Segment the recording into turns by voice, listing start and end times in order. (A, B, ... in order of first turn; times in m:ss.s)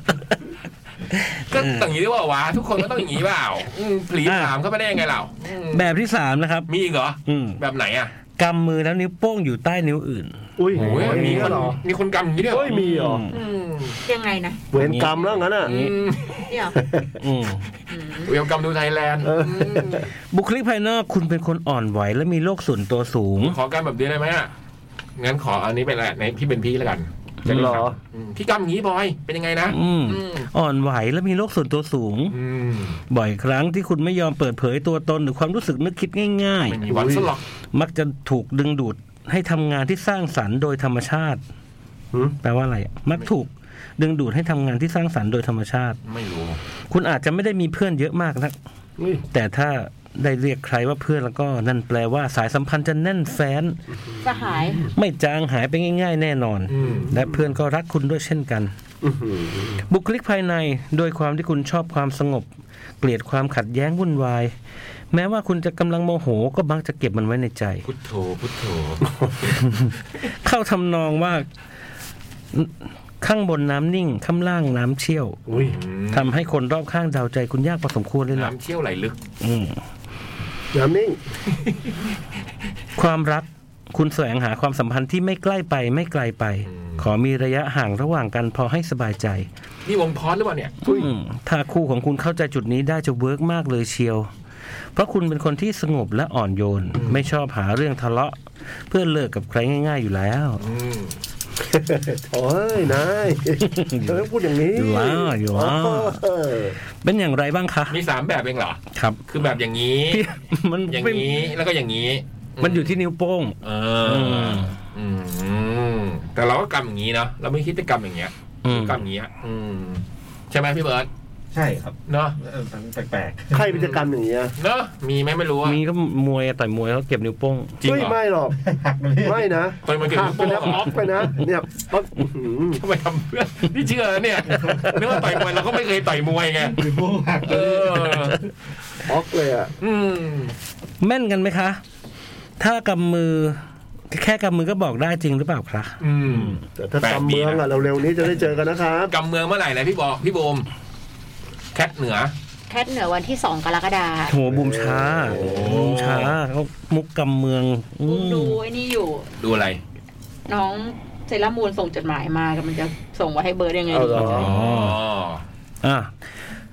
0:01.1-0:01.9 A
0:01.5-0:05.9 B
0:04.2-0:04.5 A
0:05.7-0:06.7 A
0:06.7-0:08.1 B
0:07.3-0:07.6 A
0:08.3-0:11.7 A
0:10.6-0:11.8 C
0:10.7-0:14.0 B
0:12.5-0:13.2 C
0:12.7-0:13.4 A
0:13.3-0:14.6 D
0:14.7-0:15.8 C
0:14.8-0:15.9 A
0:15.6-0:16.5 B
0:16.5-0:16.8 D
0:16.8-0:17.2 C
0:17.2-0:17.7 A
0:17.9-0:18.3 D
0:18.2-0:20.1 B
0:19.2-0:20.1 C
0:20.3-0:23.6 A
0:23.4-0:24.5 B
0:25.2-0:30.5 B
0:27.5-0:28.0 C
0:29.7-0:32.4 A
0:32.3-0:33.0 B
0:33.1-0:36.8 A
0:36.7-0:37.4 B
0:36.9-0:37.3 C
0:37.7-0:41.4 A
0:42.4-0:46.0 A
0:46.0-0:46.6 B
0:46.9-0:48.6 A
0:49.0-0:49.2 C
0:49.3-0:53.8 A
0:54.1-0:54.9 C
0:54.2-0:54.9 D
0:54.9-0:58.7 A
0:56.7-0:57.1 B
0:56.8-0:57.4 C
0:59.0-0:59.8 C
0:59.9-1:02.5 A
1:03.0-1:04.6 A
1:05.1-1:07.9 A
1:07.9-1:09.5 B
1:09.5-1:11.5 A
1:12.5-1:15.4 A
1:15.5-1:15.8 C
1:15.5-1:16.3 B
1:16.1-1:18.5 A
1:18.3-1:19.2 B
1:19.4-1:19.8 A
1:20.7-1:21.2 C
1:23.0-1:29.5 A
1:26.7-1:27.0 B
1:29.9-1:30.8 B
1:30.8-1:31.1 C
1:30.8-1:34.3 A
1:35.0-1:38.4 A
1:37.0-1:37.2 B
1:38.9-1:40.6 A
1:40.6-1:41.2 B
1:41.6-1:46.8 C
1:43.6-1:46.2 A
1:47.0-1:48.0 A
1:47.9-1:50.2 B
1:48.9-1:49.2 A
1:50.1-1:51.3 A
1:50.9-1:53.0 B
1:52.6-1:54.7 A
1:53.6-2:01.1 B
1:58.6-1:59.0 A
2:01.5-2:03.7 E
2:02.1-2:02.4 B
2:03.5-2:04.6 C
2:03.7-2:04.0 B
2:04.6-2:05.8 B
2:05.6-2:07.8 A
2:07.8-2:08.2 B
2:07.8-2:08.6 C
2:08.6-2:09.4 E
2:09.2-2:12.8 C
2:09.9-2:11.3 B
2:12.8-2:16.9 B
2:16.7-2:18.4 E
2:17.5-2:18.5 B
2:19.0-2:19.7 C
2:19.8-2:20.6 B
2:21.0-2:21.8 A
2:22.6-2:26.6 A
2:26.0-2:27.6 B
2:26.8-2:29.1 C
2:29.1-2:30.7 B
2:31.7-2:32.3 B
2:32.7-2:34.4 D
2:34.3-2:38.6 A
2:34.5-2:35.8 C
2:35.3-2:36.4 B
2:38.0-2:39.3 D
2:39.4-2:39.8 B
2:40.5-2:44.4 D
2:43.9-2:44.5 C
2:44.2-2:45.0 A
2:44.2-2:45.4 B
2:45.8-2:46.2 A